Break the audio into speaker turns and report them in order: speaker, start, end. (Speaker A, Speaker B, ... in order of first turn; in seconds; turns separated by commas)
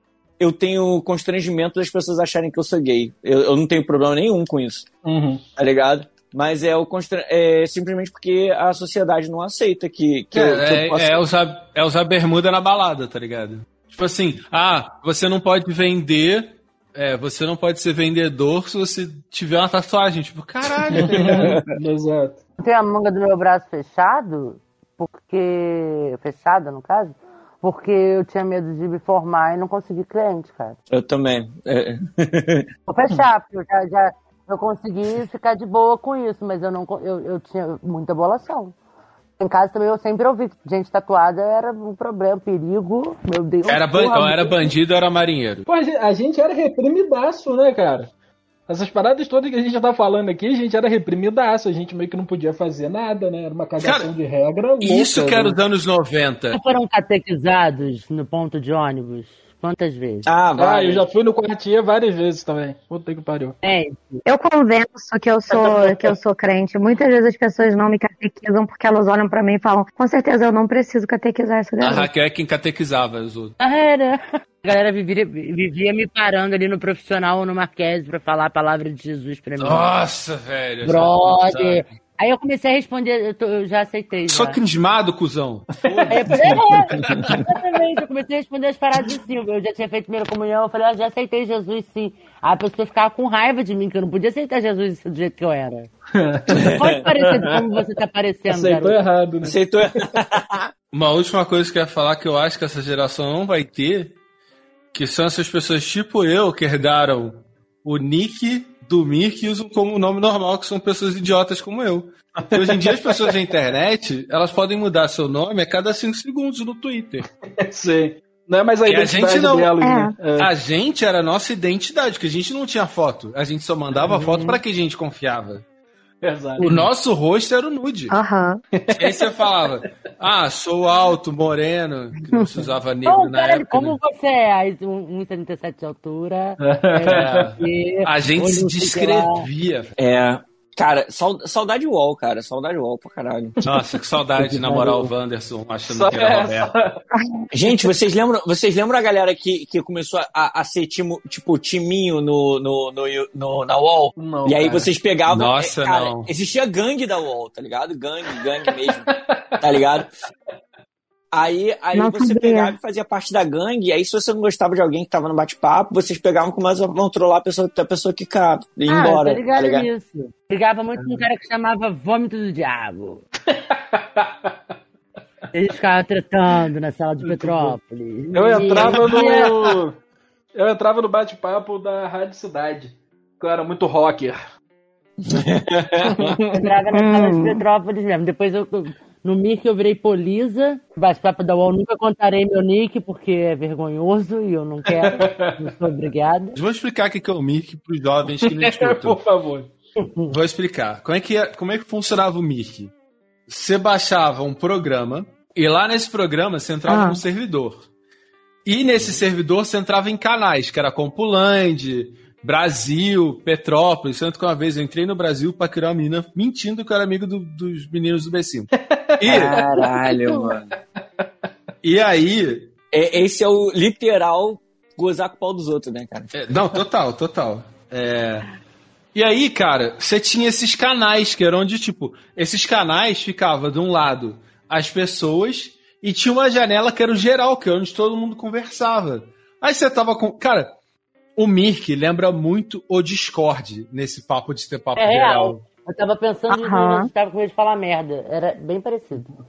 Speaker A: 0.4-4.9, Speaker B: 5.0-5.4, Speaker A: 5.6-11.2, Speaker C: 10.3-21.5, Speaker B: 20.9-22.4, Speaker A: 21.1-21.7, Speaker D: 22.6-30.8, Speaker A: 30.9-32.7, Speaker D: 32.9-38.8, Speaker D: 39.4-44.7, Speaker C: 43.6-45.6, Speaker B: 45.6-48.1, Speaker B: 48.7-55.6, Speaker C: 53.8-54.1, Speaker C: 54.8-56.6, Speaker D: 56.5-60.3, Speaker A: 60.2-61.0, Speaker B: 60.5-63.6, Speaker D: 63.6-64.2, Speaker E: 64.2-72.1, Speaker D: 65.5-66.1, Speaker C: 71.8-73.5, Speaker D: 73.6-79.9, Speaker C: 79.6-81.8, Speaker D: 80.8-84.6, Speaker C: 84.3-87.5, Speaker B: 85.9-86.6, Speaker D: 86.1-95.9, Speaker A: 87.1-87.4, Speaker B: 96.1-96.7, Speaker A: 96.5-97.5, Speaker D: 96.7-99.0, Speaker B: 98.5-100.0, Speaker A: 99.4-100.7, Speaker C: 100.9-104.1, Speaker C: 104.9-117.2, Speaker B: 112.4-113.2, Speaker B: 117.6-120.5, Speaker C: 118.8-119.7, Speaker E: 119.8-120.1, Speaker C: 120.4-125.6, Speaker B: 126.2-126.7, Speaker D: 126.6-126.9, Speaker C: 126.6-128.1, Speaker E: 128.1-128.6, Speaker B: 128.8-129.3, Speaker C: 128.9-134.0, Speaker D: 133.0-139.5, Speaker B: 136.6-137.4, Speaker C: 137.1-139.9, Speaker A: 140.0-143.6, Speaker C: 143.6-146.7, Speaker D: 144.4-145.1, Speaker B: 145.9-147.0, Speaker E: 147.1-147.5, Speaker A: 147.5-159.1, Speaker B: 154.2-154.9, Speaker C: 155.3-156.3, Speaker B: 159.2-159.6, Speaker A: 159.6-160.1, Speaker A: 161.3-169.9, Speaker E: 161.9-162.7, Speaker D: 168.9-173.2, Speaker B: 173.5-174.5, Speaker D: 175.5-179.8, Speaker B: 177.2-177.7, Speaker B: 178.3-179.9, Speaker B: 180.6-184.4, Speaker A: 185.2-186.4, Speaker B: 186.0-186.7, Speaker D: 186.5-196.6, Speaker E: 186.9-187.6, Speaker B: 194.9-195.6, Speaker C: 196.5-199.2, Speaker B: 198.5-199.7, Speaker D: 200.0-200.3, Speaker C: 200.3-202.9, Speaker C: 203.5-207.8, Speaker E: 206.9-207.2, Speaker C: 208.6-219.6, Speaker B: 218.9-220.5, Speaker A: 219.3-220.7, Speaker C: 221.8-222.7, Speaker A: 222.9-226.3, Speaker C: 226.3-228.5, Speaker C: 229.1-240.8, Speaker C: 241.3-245.6, Speaker D: 244.9-249.3, Speaker E: 246.5-247.1